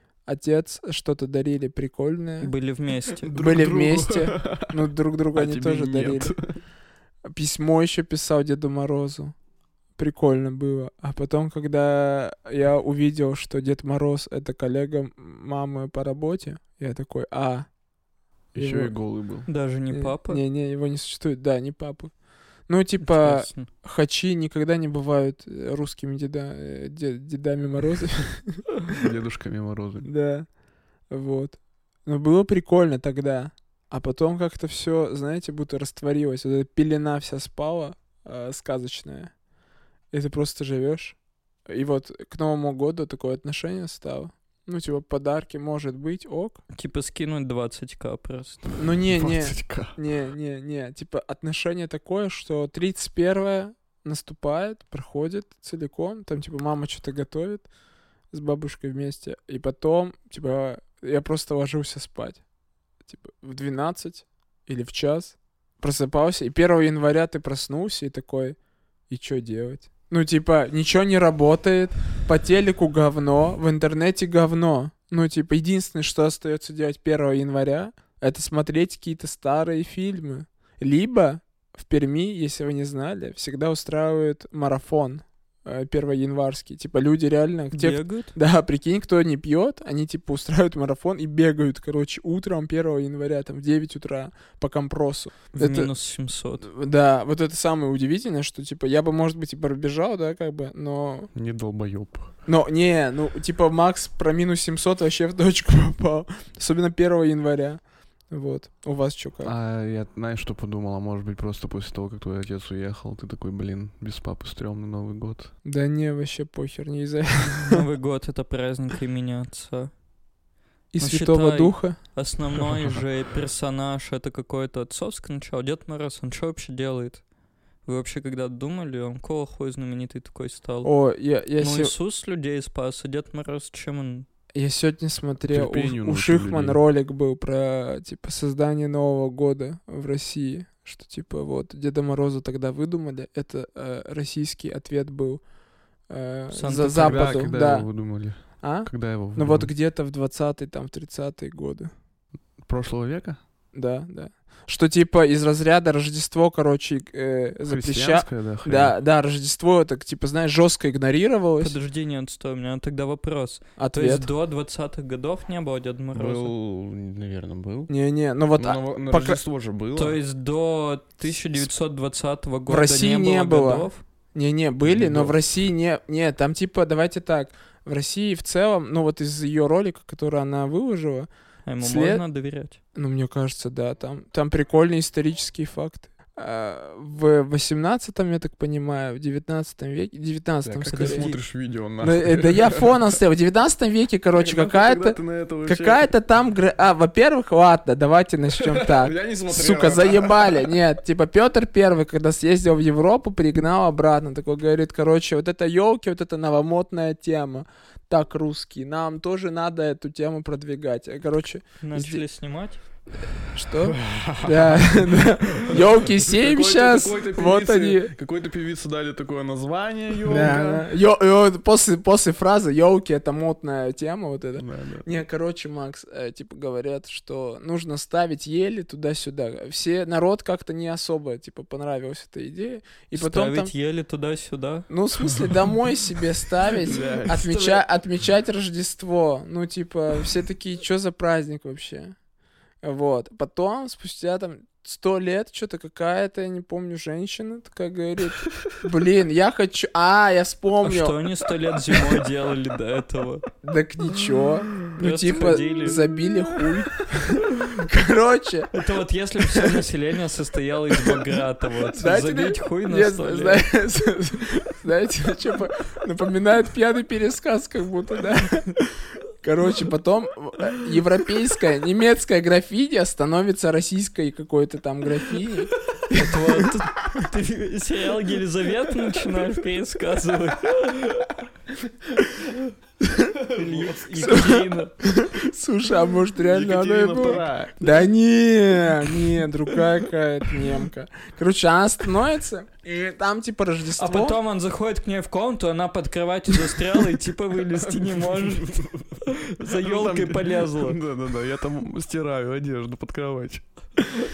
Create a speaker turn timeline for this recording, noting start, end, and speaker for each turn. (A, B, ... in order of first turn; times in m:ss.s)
0:00.2-0:02.5 A
0:02.4-0:03.3 B
0:03.2-0:06.4 C
0:03.3-0:06.3 A
0:07.3-0:09.3 A
0:10.0-0:17.7 A
0:18.5-0:19.5 C
0:18.6-0:18.9 A
0:19.5-0:20.4 B
0:19.9-0:22.1 A
0:22.7-0:29.0 A
0:23.0-0:23.7 B
0:28.9-0:30.1 C
0:30.0-0:30.5 A
0:31.1-0:39.3 A
0:40.1-0:41.2 A
0:41.7-0:46.6 A
0:46.7-0:48.6 B
0:48.8-0:57.7 A
0:49.1-0:50.0 C
0:58.3-1:02.4 A
1:03.0-1:08.6 A
1:09.1-1:35.9 A
1:27.7-1:28.3 B
1:35.5-1:36.7 B
1:36.6-1:41.3 A
1:41.3-1:42.3 C
1:42.4-1:49.5 A
1:49.4-1:55.5 C
1:55.6-1:57.8 A
1:57.6-1:59.9 B
2:00.9-2:02.0 A
2:01.0-2:07.2 B
2:07.8-2:10.9 B
2:10.8-2:11.9 A
2:11.6-2:14.3 B
2:14.5-2:25.4 A
2:15.5-2:16.8 C
2:26.1-2:27.9 A
2:26.5-2:27.3 B
2:27.0-2:29.7 C
2:28.6-2:31.9 A
2:32.6-2:33.4 C
2:33.7-2:41.7 A
2:37.7-2:38.9 C
2:41.6-2:46.5 B
2:43.8-2:44.3 A
2:46.1-2:47.9 C
2:47.9-2:49.4 A
2:48.6-2:50.2 C
2:49.9-2:54.0 B
2:52.7-3:01.3 A
2:54.9-2:55.3 C
3:01.6-3:02.8 B
3:01.8-3:02.2 A
3:02.9-3:11.2 A
3:10.6-3:12.9 C
3:10.9-3:11.4 B
3:12.0-3:32.2 A
3:14.4-3:16.0 C
3:18.5-3:20.7 C
3:31.8-3:32.8 B
3:33.5-3:38.1 A
3:33.9-3:40.9 C
3:40.3-3:53.7 A
3:44.6-3:45.1 C
3:53.1-3:54.9 B
3:54.9-4:02.2 A
3:56.6-3:57.8 C
4:02.8-4:11.2 A
4:10.8-4:13.5 B
4:13.6-4:18.7 A
4:14.9-4:16.0 B
4:18.7-4:23.6 B
4:19.5-4:19.8 A
4:21.9-4:36.7 A
4:36.1-4:41.3 B
4:43.0-4:43.4 A
4:43.5-4:44.9 B
4:43.5-4:44.0 C
4:44.2-4:54.4 A
4:46.4-4:47.9 C
4:54.0-4:58.7 B
4:57.7-5:03.6 C
4:59.2-5:01.0 B